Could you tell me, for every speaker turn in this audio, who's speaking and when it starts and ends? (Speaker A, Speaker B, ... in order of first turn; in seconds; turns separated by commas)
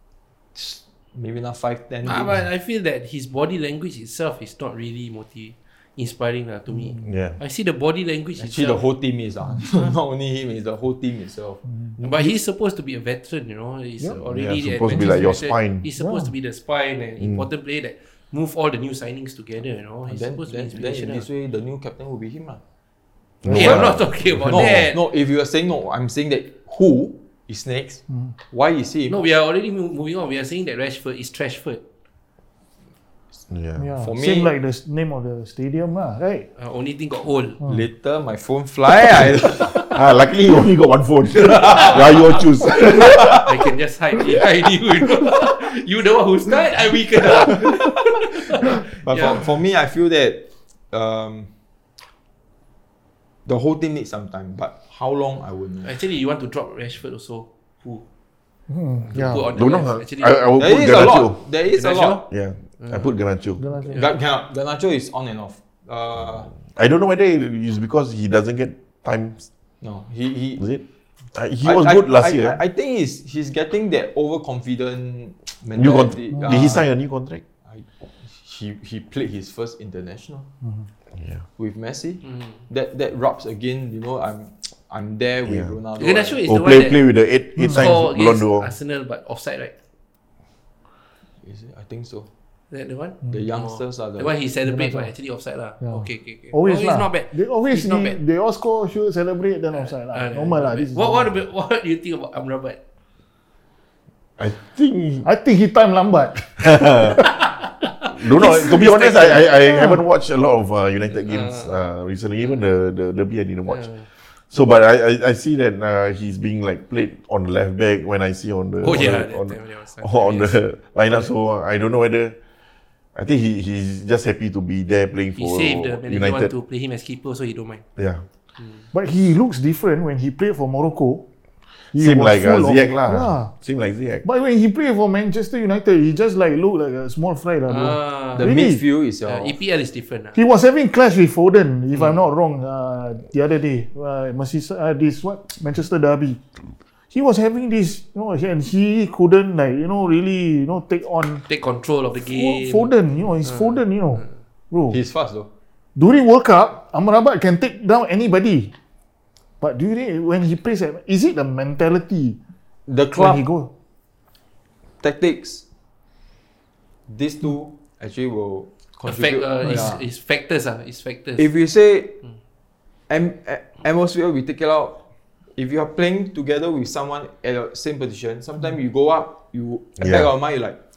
Speaker A: 0.5-2.5, Speaker B: 2.0-8.8, Speaker C: 6.7-7.1, Speaker D: 7.0-7.4, Speaker A: 8.4-12.3, Speaker C: 11.6-12.0, Speaker B: 12.0-21.3, Speaker D: 14.3-15.9, Speaker C: 16.0-16.3, Speaker D: 17.2-17.5, Speaker A: 20.1-22.6, Speaker D: 23.4-24.2, Speaker C: 23.4-24.0, Speaker B: 23.5-25.0, Speaker A: 24.2-29.2, Speaker C: 28.1-28.3, Speaker B: 29.1-31.8, Speaker D: 33.5-33.9, Speaker C: 33.8-36.5, Speaker A: 34.0-34.5, Speaker B: 36.6-37.6, Speaker A: 37.6-39.8, Speaker D: 39.9-43.5, Speaker A: 41.4-42.4, Speaker B: 42.7-49.4, Speaker A: 43.1-43.4, Speaker A: 48.5-51.5, Speaker A: 53.5-55.9, Speaker B: 55.8-58.0, Speaker C: 58.7-59.5, Speaker B: 59.1-60.5, Speaker D: 59.1-61.4, Speaker A: 60.6-62.2, Speaker B: 61.7-62.2, Speaker D: 62.3-63.6, Speaker B: 62.8-63.1, Speaker C: 63.6-64.0, Speaker A: 63.9-66.5, Speaker D: 66.5-69.5, Speaker A: 69.8-70.6, Speaker D: 70.6-72.6, Speaker A: 71.6-76.9, Speaker D: 75.7-77.4, Speaker C: 76.3-76.8, Speaker A: 77.7-80.5, Speaker C: 80.6-80.9, Speaker D: 81.2-81.4, Speaker A: 81.6-86.4, Speaker B: 82.2-82.6, Speaker D: 85.5-85.8, Speaker B: 86.0-87.0, Speaker D: 86.4-88.7, Speaker C: 87.6-87.9, Speaker B: 87.6-89.7, Speaker A: 91.4-92.3, Speaker B: 92.7-98.2, Speaker A: 93.3-94.4, Speaker C: 94.6-95.1, Speaker C: 95.8-101.4, Speaker B: 99.7-102.8, Speaker D: 104.4-105.2, Speaker C: 105.2-107.2, Speaker D: 106.6-107.2, Speaker B: 107.1-109.6, Speaker D: 108.1-113.9, Speaker C: 109.7-110.0, Speaker B: 111.1-111.8, Speaker B: 113.7-114.1, Speaker D: 114.5-122.3, Speaker B: 118.8-121.3, Speaker D: 123.1-126.5, Speaker B: 125.3-127.8, Speaker D: 128.0-128.2, Speaker B: 128.6-128.9, Speaker C: 128.9-131.2, Speaker C: 131.9-133.5, Speaker D: 131.9-134.2, Speaker C: 134.2-138.8, Speaker B: 137.7-138.6, Speaker A: 138.3-139.6, Speaker B: 139.2-140.4, Speaker C: 140.3-146.4, Speaker C: 147.1-151.4, Speaker B: 151.4-152.9, Speaker C: 152.2-155.0, Speaker B: 153.4-154.3, Speaker A: 154.9-155.5, Speaker C: 155.9-158.7, Speaker C: 159.6-162.4, Speaker A: 162.9-163.4, Speaker C: 163.1-163.7, Speaker A: 165.0-165.6, Speaker A: 167.1-170.0, Speaker B: 169.1-171.5, Speaker A: 171.4-172.2, Speaker A: 173.1-175.0, Speaker A: 175.6-180.8, Speaker D: 180.0-180.3